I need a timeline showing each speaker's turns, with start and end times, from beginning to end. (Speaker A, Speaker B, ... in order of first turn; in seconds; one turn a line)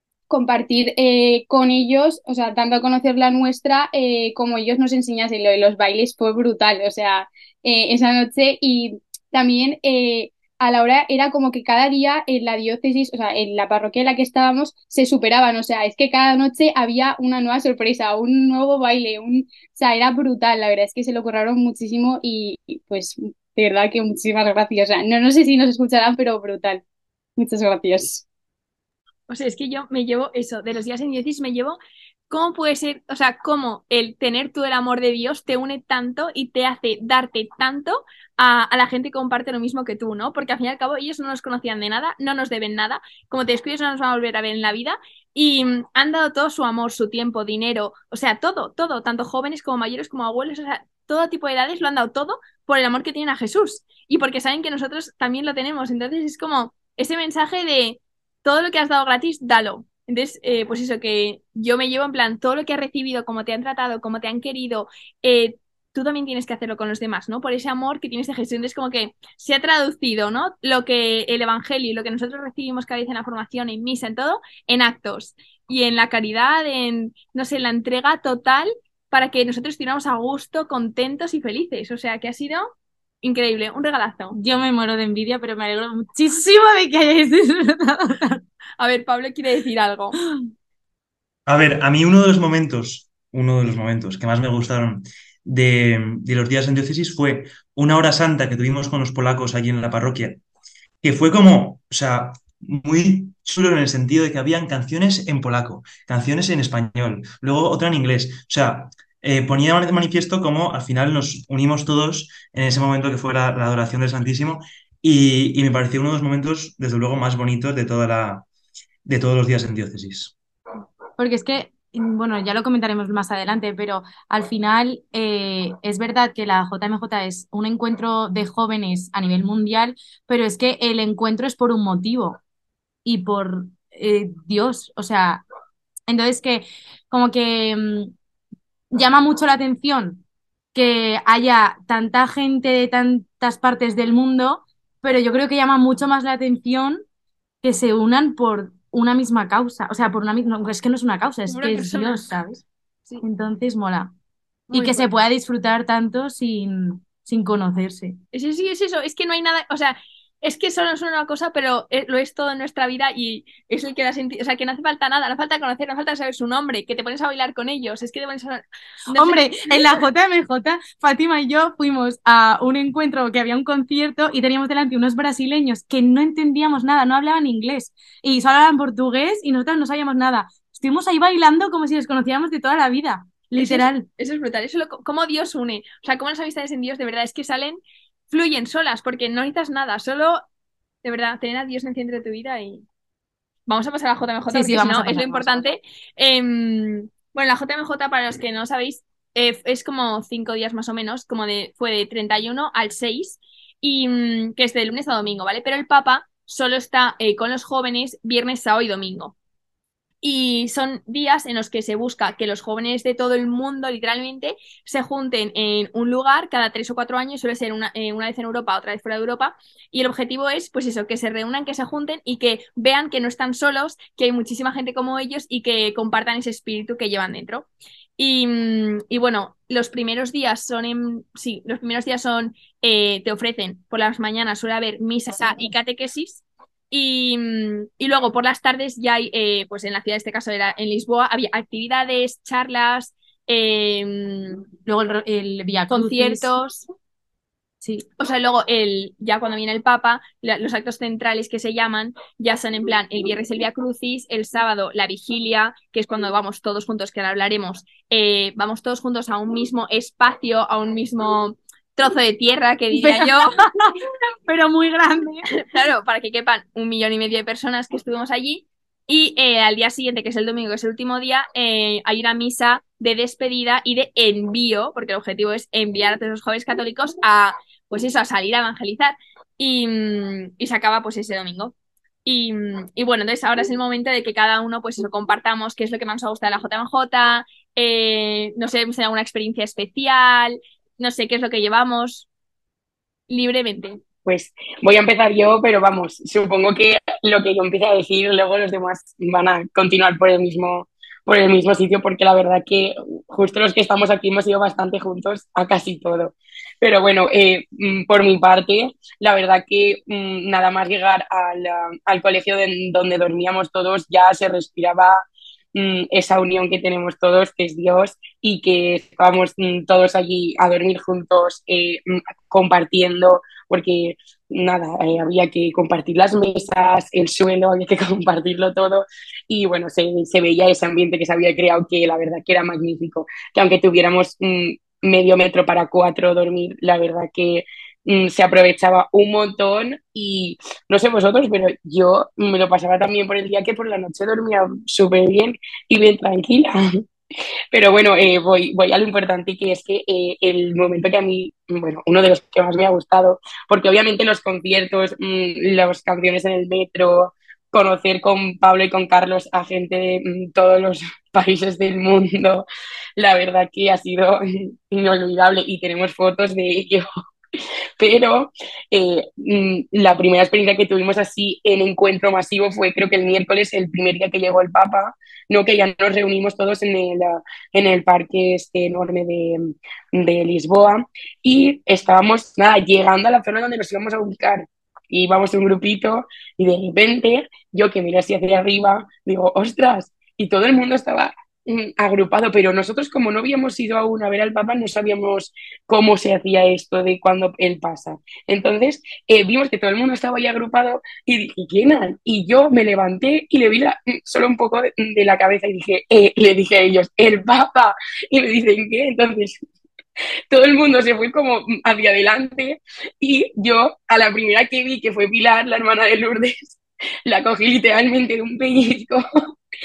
Speaker A: 0.3-26.8
Speaker A: 27.4-28.2
Speaker B: 29.3-31.8
Speaker B: 32.3-82.7
Speaker B: 83.2-84.4
Speaker C: 84.3-88.4
Speaker B: 88.8-90.2
Speaker D: 91.5-100.4
Speaker D: 101.0-118.5
Speaker D: 119.1-120.3
Speaker C: 121.2-132.4
Speaker C: 133.1-135.4
Speaker C: 136.1-138.1
Speaker C: 138.9-140.2
Speaker C: 140.7-147.0
Speaker C: 147.6-152.6
Speaker B: 151.5-152.4
Speaker C: 153.2-154.1
Speaker B: 154.7-155.1
Speaker C: 154.7-158.2
Speaker B: 158.3-169.9
Speaker C: 169.1-184.1
Speaker B: 183.6-190.4
Speaker B: 191.0-192.8
Speaker B: 193.7-209.3
Speaker C: 194.5-195.7
Speaker B: 210.2-244.7
Speaker C: 244.9-246.5
Speaker B: 245.9-246.9
Speaker B: 248.2-263.5
Speaker C: 263.0-264.0
Speaker C: 264.5-265.5
Speaker B: 265.6-281.7
Speaker B: 282.2-292.3
Speaker B: 293.3-294.0
Speaker E: 294.2-315.2
Speaker E: 315.8-347.0
Speaker E: 347.7-362.6
Speaker E: 363.2-367.1
Speaker E: 368.0-409.6
Speaker E: 410.5-419.2